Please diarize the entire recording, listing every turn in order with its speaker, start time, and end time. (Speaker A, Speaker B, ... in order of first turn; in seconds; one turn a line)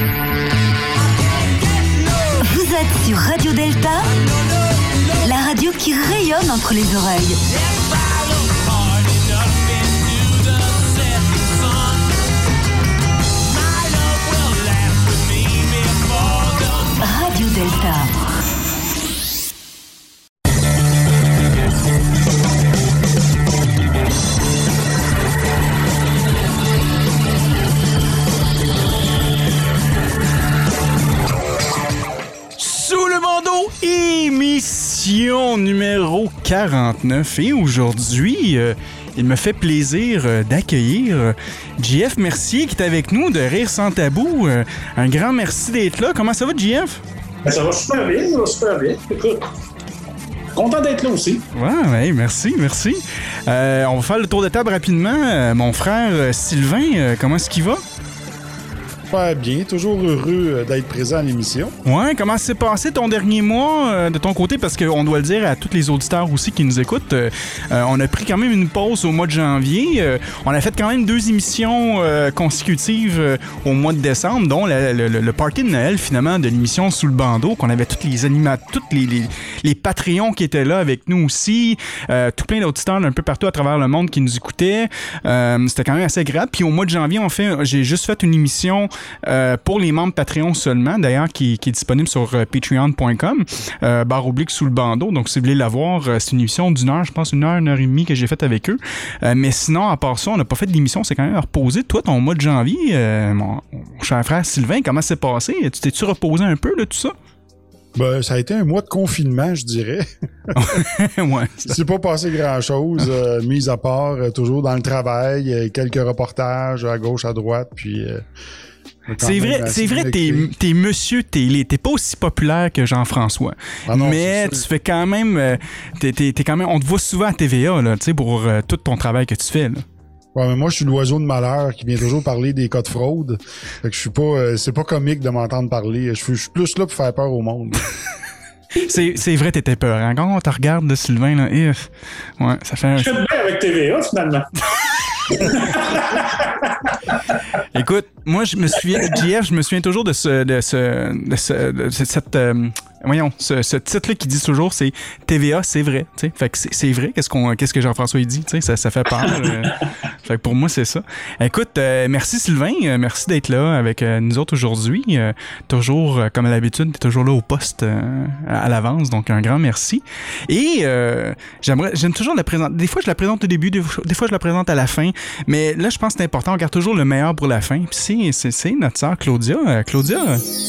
Speaker A: 2.4-4.1
Speaker A: 5.2-7.4
Speaker B: 14.5-14.9
Speaker A: 16.8-18.1
Speaker C: 32.6-47.0
Speaker B: 47.4-49.4
Speaker B: 50.5-51.5
Speaker C: 51.5-57.8
Speaker D: 59.1-61.7
Speaker C: 61.8-107.1
Speaker D: 108.0-110.8
Speaker C: 110.5-111.8
Speaker D: 111.7-118.2
Speaker D: 119.1-120.5
Speaker C: 119.2-129.8
Speaker D: 123.9-124.6
Speaker D: 130.3-137.8
Speaker C: 138.8-143.2
Speaker B: 143.0-147.4
Speaker C: 147.7-180.4